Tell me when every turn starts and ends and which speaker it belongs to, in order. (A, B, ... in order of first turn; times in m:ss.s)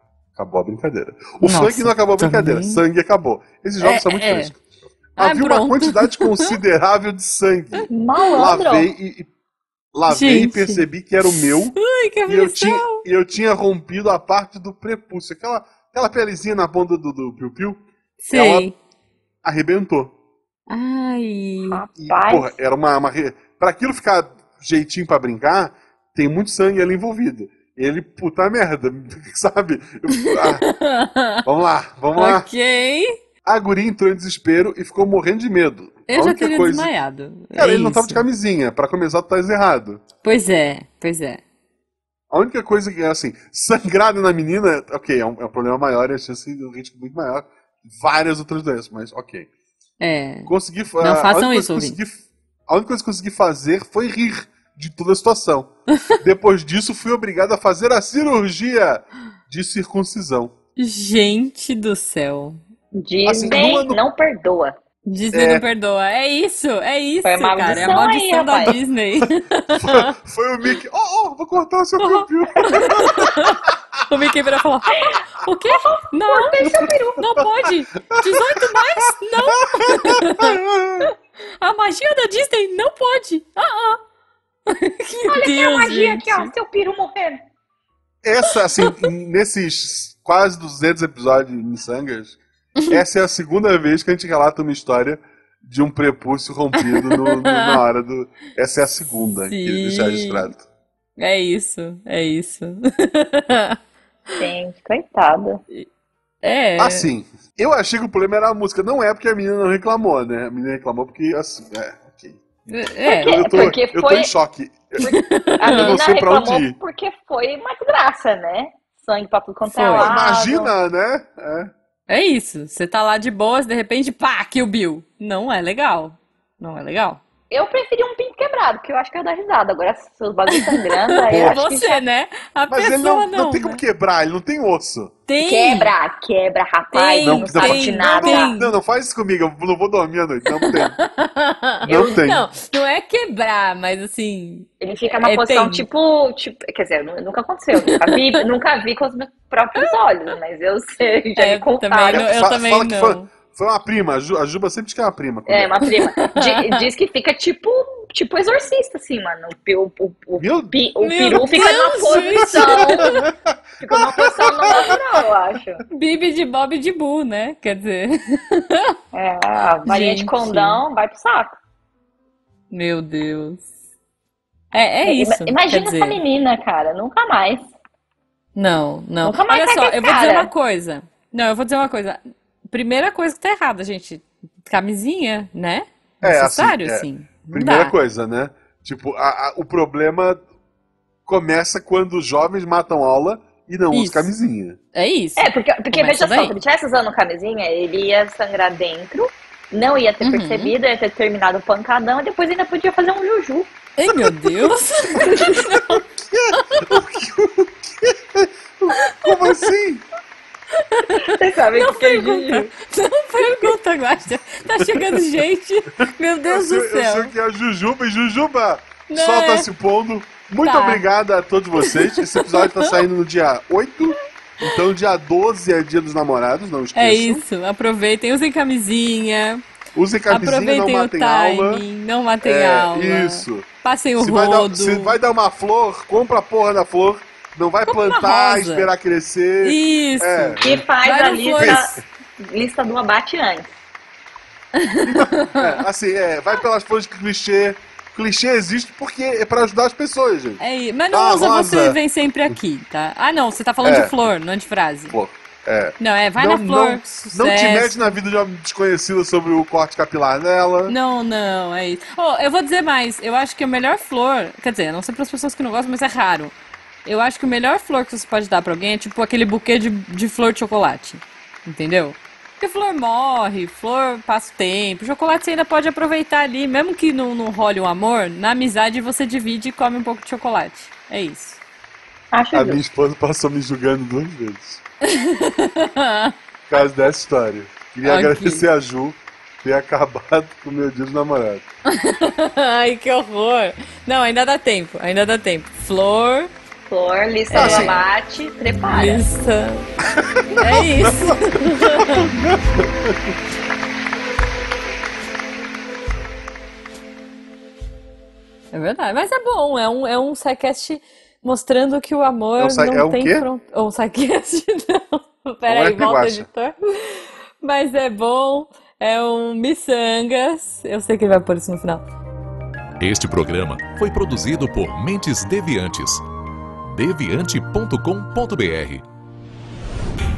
0:00.4-0:09.3 A
0:01.4-0:02.8 B
0:03.8-0:04.6 B
0:05.2-0:06.6 B
0:07.8-0:08.4 B
0:07.9-0:08.9 C
0:09.9-0:11.8 A
0:10.1-0:13.0 B
0:12.3-0:18.7 A
0:18.2-0:18.8 B
0:19.4-0:20.1 A
0:20.7-0:21.8 B
0:21.7-0:22.5 C
0:22.0-0:30.7 A
0:30.2-0:31.4 B
0:31.4-0:32.5 A
0:32.1-0:33.2 B
0:33.4-0:36.9 A
0:36.1-0:38.2 B
0:37.5-0:40.0 A
0:40.2-0:41.4 B
0:42.3-0:49.5 A
0:50.0-0:52.0 B
0:50.5-1:00.5 A
1:00.8-1:02.6 B
1:02.9-1:04.8 C
1:03.3-1:04.0 A
1:05.1-1:10.1 B
1:05.3-1:05.6 A
1:07.2-1:08.8 C
1:07.7-1:08.0 A
1:09.2-1:14.0 A
1:12.0-1:24.0 B
1:15.7-1:17.2 C
1:18.1-1:21.1 A
1:24.7-1:26.5 B
1:25.3-1:27.4 C
1:28.2-1:32.4 A
1:32.9-1:40.6 A
1:36.8-1:37.8 B
1:39.5-1:40.5 B
1:41.2-1:43.8 B
1:44.4-1:45.6 C
1:46.4-1:47.1 B
1:46.8-1:52.4 A
1:52.7-1:53.4 B
1:53.1-1:54.3 C
1:53.2-1:56.8 A
1:55.0-1:55.9 B
1:55.6-2:00.7 C
1:59.7-2:00.1 B
2:00.0-2:01.7 A
2:02.1-2:07.2 B
2:07.5-2:12.0 C
2:10.8-2:13.8 B
2:12.7-2:15.1 A
2:15.3-2:15.9 B
2:15.4-2:18.6 C
2:16.9-2:18.7 B
2:17.2-2:21.0 A
2:20.6-2:24.7 B
2:21.9-2:22.2 C
2:21.9-2:22.5 A
2:24.8-2:32.3 C
2:25.2-2:25.8 B
2:27.7-2:28.4 B
2:31.4-2:33.3 B
2:32.1-2:35.7 A
2:35.5-2:43.2 C
2:35.9-2:36.9 B
2:40.4-2:45.0 A
2:41.0-2:43.3 B
2:43.8-2:45.8 C
2:45.9-2:48.9 B
2:49.1-2:51.6 C
2:49.9-2:50.8 B
2:52.7-2:53.7 B
2:54.7-2:56.2 B
2:55.1-2:57.6 C
2:58.6-3:08.0 B
2:59.2-3:00.5 C
3:06.2-3:10.4 A
3:11.3-3:14.8 A
3:13.9-3:14.3 B
3:14.9-3:16.5 B
3:15.4-3:23.7 C
3:20.2-3:20.7 B
3:24.0-3:26.0 B
3:25.2-3:25.7 C
3:25.6-3:30.0 A
3:26.6-3:27.0 B
3:28.9-3:29.6 B
3:30.8-3:37.3 B
3:31.3-3:32.7 C
3:34.7-3:35.2 A
3:36.5-3:47.4 A
3:39.1-3:39.7 B
3:40.6-3:41.1 B
3:41.8-3:43.0 B
3:47.0-3:49.6 B
3:50.0-3:51.8 A
3:50.3-3:55.2 B
3:52.4-3:53.7 A
3:54.2-4:00.8 A
3:57.8-3:58.9 B
3:59.6-4:02.0 B
4:00.6-4:03.7 C
4:01.6-4:02.0 A
4:04.8-4:05.8 B
4:05.0-4:10.6 A
4:10.6-4:15.2 B
4:11.1-4:12.6 A
4:13.8-4:14.1 A
4:15.1-4:21.0 A
4:16.0-4:18.1 B
4:20.9-4:26.5 B
4:27.0-4:41.6 B
4:42.3-4:42.8 C
4:42.5-4:44.8 A
4:45.0-4:46.3 B
4:46.7-4:51.6 A
4:48.0-4:48.6 B
4:51.9-4:56.5 B
4:56.9-4:59.2 C
4:57.5-4:58.0 B
4:57.6-4:58.0 A
4:58.9-4:59.9 B
5:00.2-5:03.4 A
5:00.5-5:02.3 B
5:08.7-5:22.0 B
5:12.6-5:13.4 A
5:15.7-5:16.5 A
5:23.0-5:26.2 D
5:26.8-5:29.0 D